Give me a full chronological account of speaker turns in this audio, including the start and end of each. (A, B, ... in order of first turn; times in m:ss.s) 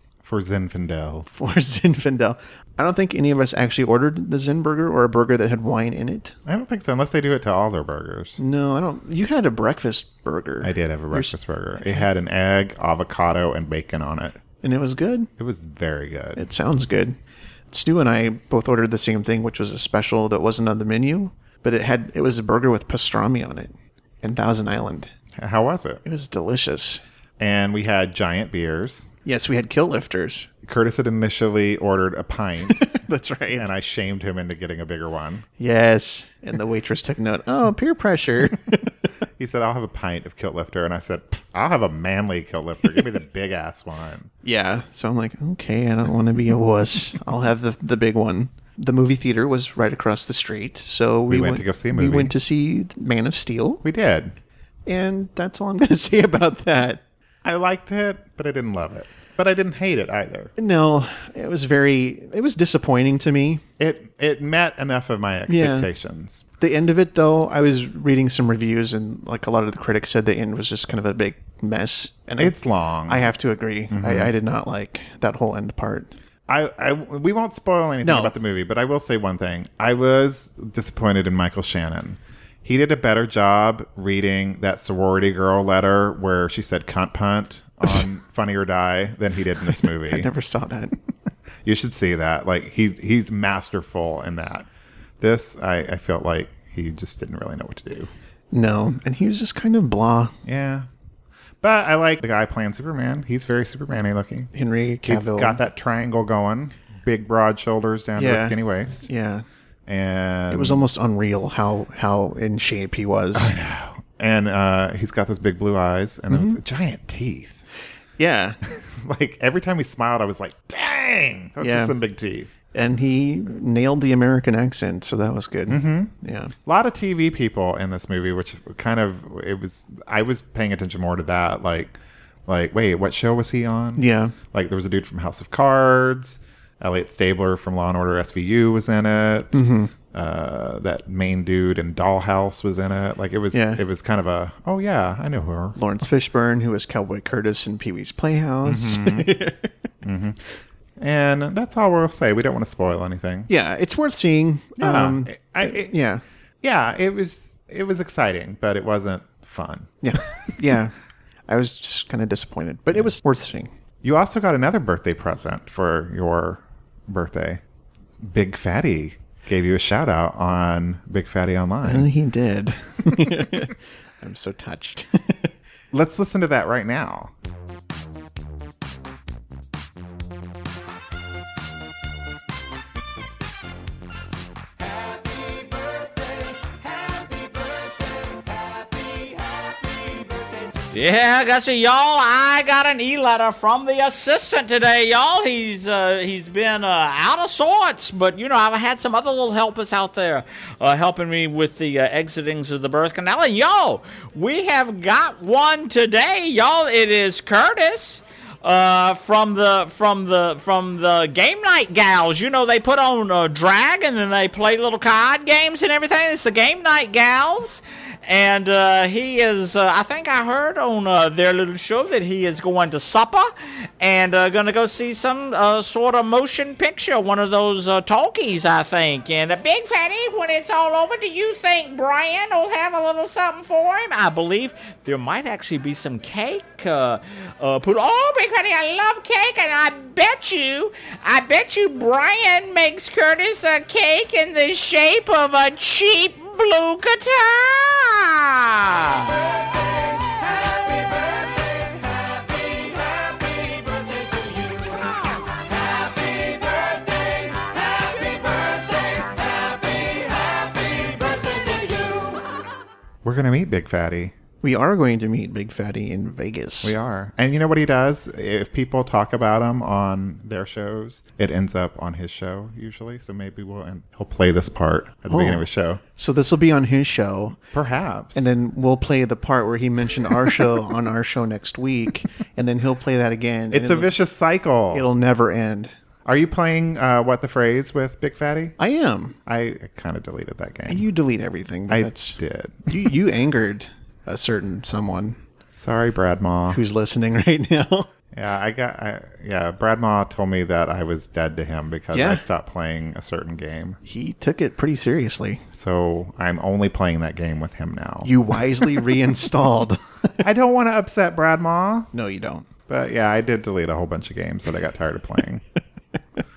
0:00.2-0:01.3 A
0:01.3-0:06.4 B
0:06.4-0:08.4 A
0:08.4-0:12.0 B
0:10.6-0:14.4 A
0:14.6-0:15.3 B
0:15.4-0:16.4 A
0:16.4-0:17.2 B
0:17.7-0:25.1 B
0:25.4-0:26.0 A
0:26.0-0:27.0 B
0:27.4-0:29.1 A
0:29.2-0:30.5 B
0:30.6-0:32.9 A
0:32.6-0:33.7 B
0:33.5-0:35.4 A
0:35.6-0:38.9 B
0:39.4-0:44.3 A
0:44.4-0:53.8 B
0:51.3-0:52.4 A
0:53.8-0:54.4 A
0:54.9-0:57.0 B
0:57.4-1:00.5 A
1:00.6-1:03.6 B
1:03.8-1:06.4 A
1:05.5-1:05.9 B
1:06.6-1:16.1 B
1:12.4-1:13.3 A
1:13.9-1:14.3 A
1:16.5-1:30.3 A
1:18.0-1:18.4 B
1:29.6-1:31.0 B
1:31.6-1:34.7 A
1:35.2-1:38.1 A
1:38.5-1:40.3 B
1:40.4-1:40.9 A
1:41.6-1:44.5 A
1:44.5-1:45.6 B
1:45.0-1:49.0 A
1:48.2-1:49.4 B
1:49.9-1:50.9 A
1:50.5-1:53.5 B
1:53.3-1:57.6 A
1:56.3-1:56.6 B
1:58.2-1:58.6 B
1:58.7-2:02.5 A
2:01.6-2:01.9 B
2:02.7-2:06.5 B
2:05.7-2:06.1 A
2:06.6-2:11.9 A
2:12.5-2:25.8 A
2:14.0-2:14.4 B
2:19.5-2:19.9 B
2:23.5-2:23.8 B
2:25.8-2:29.7 B
2:28.6-2:29.4 A
2:30.0-2:30.4 A
2:31.0-2:33.5 A
2:33.5-2:36.2 B
2:34.8-2:35.9 A
2:36.6-2:40.0 A
2:40.0-2:40.9 B
2:41.5-2:43.7 B
2:44.0-2:47.6 A
2:48.2-2:52.1 A
2:51.8-2:55.5 B
2:55.9-2:57.3 A
3:05.4-3:07.6 C
3:09.0-3:09.4 C
3:10.8-4:09.4 C
4:10.9-4:11.1 C
4:12.8-4:13.3 C
4:13.9-4:15.2 C
4:16.1-4:22.2 C
4:23.2-4:24.4 A
4:24.6-4:26.9 B
4:26.8-4:36.0 A
4:35.3-4:37.6 B
4:37.7-4:38.5 A
4:38.4-4:44.2 B
4:43.7-4:45.1 A
4:44.9-4:45.9 B
4:46.2-4:48.8 A
4:48.8-4:49.4 B
4:49.5-4:51.1 A
4:50.9-4:55.4 B
4:51.9-4:53.1 A
4:55.8-4:56.8 A
4:56.7-4:58.1 B
4:58.3-5:04.0 A
5:02.1-5:02.4 B
5:04.0-5:05.6 B
5:05.7-5:08.3 A
5:08.2-5:10.0 B
5:10.4-5:12.1 A
5:12.1-5:12.7 B
5:12.9-5:15.6 A